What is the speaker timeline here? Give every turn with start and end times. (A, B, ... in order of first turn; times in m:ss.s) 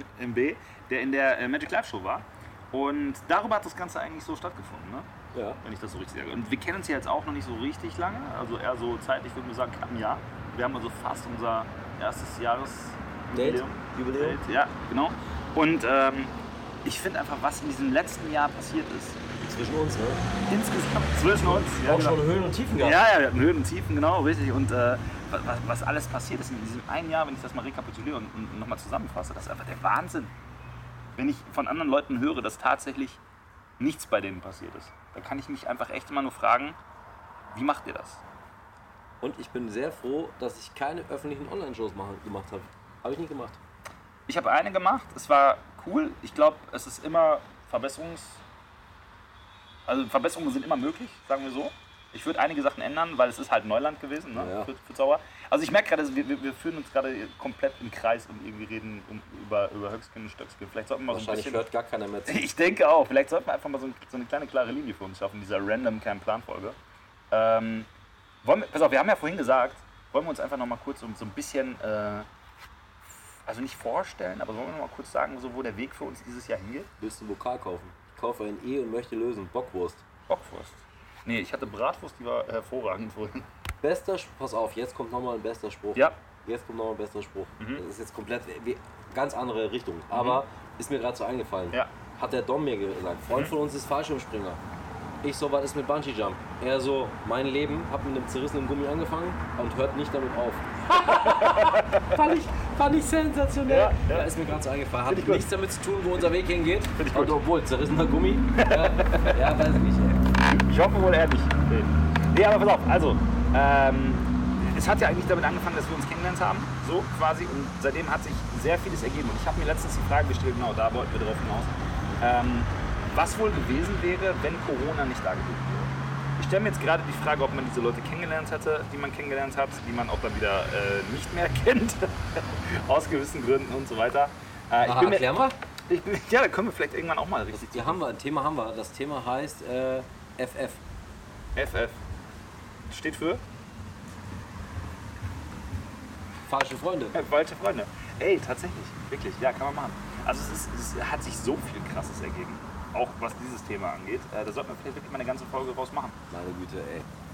0:00.2-0:05.1 A
0:05.3-0:05.6 B
0:05.6-0:19.2 A
0:13.3-0:14.4 B
0:19.4-0:20.3 B
0:20.5-0:22.2 A
0:21.4-0:23.0 B
0:22.8-0:30.3 A
0:31.2-0:33.2 A
0:33.8-0:36.8 A
0:37.5-0:38.2 A
0:39.2-0:43.6 B
0:44.3-0:48.4 A
0:49.9-1:01.7 A
0:54.3-0:54.7 B
1:01.1-1:02.4 B
1:02.3-1:06.8 A
1:07.3-1:07.9 A
1:08.4-1:12.3 A
1:13.5-1:16.9 A
1:17.0-1:20.0 B
1:20.3-1:23.5 A
1:23.8-1:34.6 B
1:30.1-1:30.4 A
1:35.2-1:50.3 B
1:40.9-1:42.2 A
1:43.7-1:44.4 A
1:45.1-1:45.5 A
1:47.0-1:47.4 A
1:48.5-1:49.7 A
1:50.4-2:15.3 A
2:14.8-2:15.6 B
2:15.9-2:18.0 A
2:17.5-2:20.8 B
2:21.6-2:22.0 A
2:22.9-2:23.4 A
2:26.5-2:27.2 B
2:27.1-2:36.2 A
2:36.3-2:37.1 B